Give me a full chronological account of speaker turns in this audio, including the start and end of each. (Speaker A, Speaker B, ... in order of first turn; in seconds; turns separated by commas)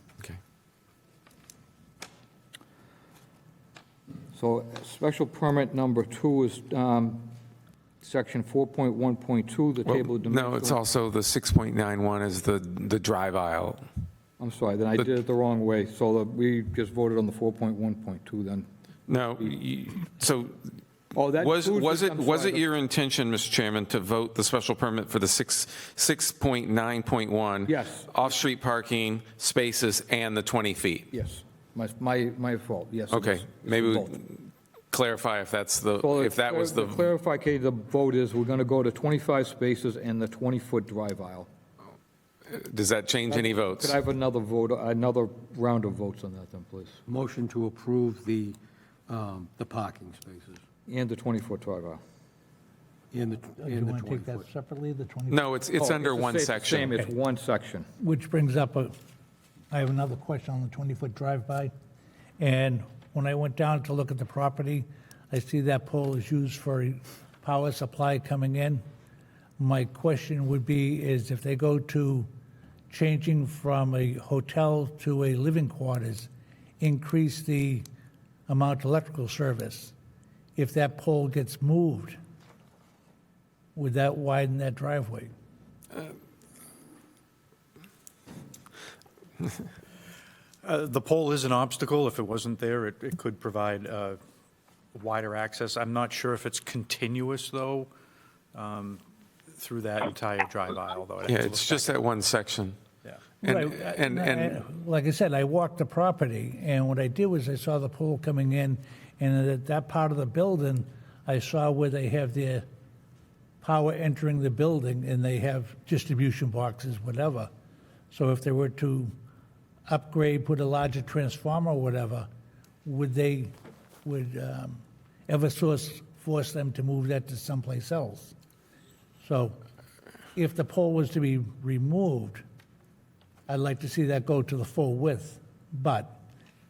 Speaker A: 4.3-7.3, Speaker A: 8.0-10.8, Speaker B: 9.8-13.8, Speaker A: 14.4-18.7, Speaker B: 19.1-20.6, Speaker A: 21.1-22.6, Speaker B: 21.4-31.1, Speaker A: 27.7-28.1, Speaker A: 31.1-34.2, Speaker B: 33.1-34.4, Speaker B: 34.9-37.0, Speaker A: 36.0-41.5, Speaker B: 42.5-44.0, Speaker A: 43.3-47.0, Speaker C: 47.1-48.6, Speaker C: 49.1-50.6, Speaker A: 50.9-52.0, Speaker C: 53.1-54.5, Speaker D: 53.6-55.4, Speaker B: 55.3-57.0, Speaker A: 55.8-57.9, Speaker D: 56.8-57.1, Speaker D: 58.0-58.9, Speaker D: 59.7-61.7, Speaker D: 62.4-68.8, Speaker D: 69.6-72.3, Speaker D: 72.9-77.8, Speaker D: 78.5-79.9, Speaker D: 80.6-82.2, Speaker D: 83.8-85.3, Speaker E: 90.6-94.2, Speaker E: 95.0-97.9, Speaker E: 98.5-99.0, Speaker E: 99.6-102.0, Speaker B: 101.3-102.8, Speaker B: 103.4-104.6, Speaker D: 103.4-112.7, Speaker D: 113.6-117.5, Speaker D: 118.1-119.1, Speaker D: 119.9-122.3, Speaker D: 122.8-123.5, Speaker D: 124.0-128.3, Speaker D: 129.2-129.6, Speaker D: 130.3-132.4, Speaker D: 133.5-136.2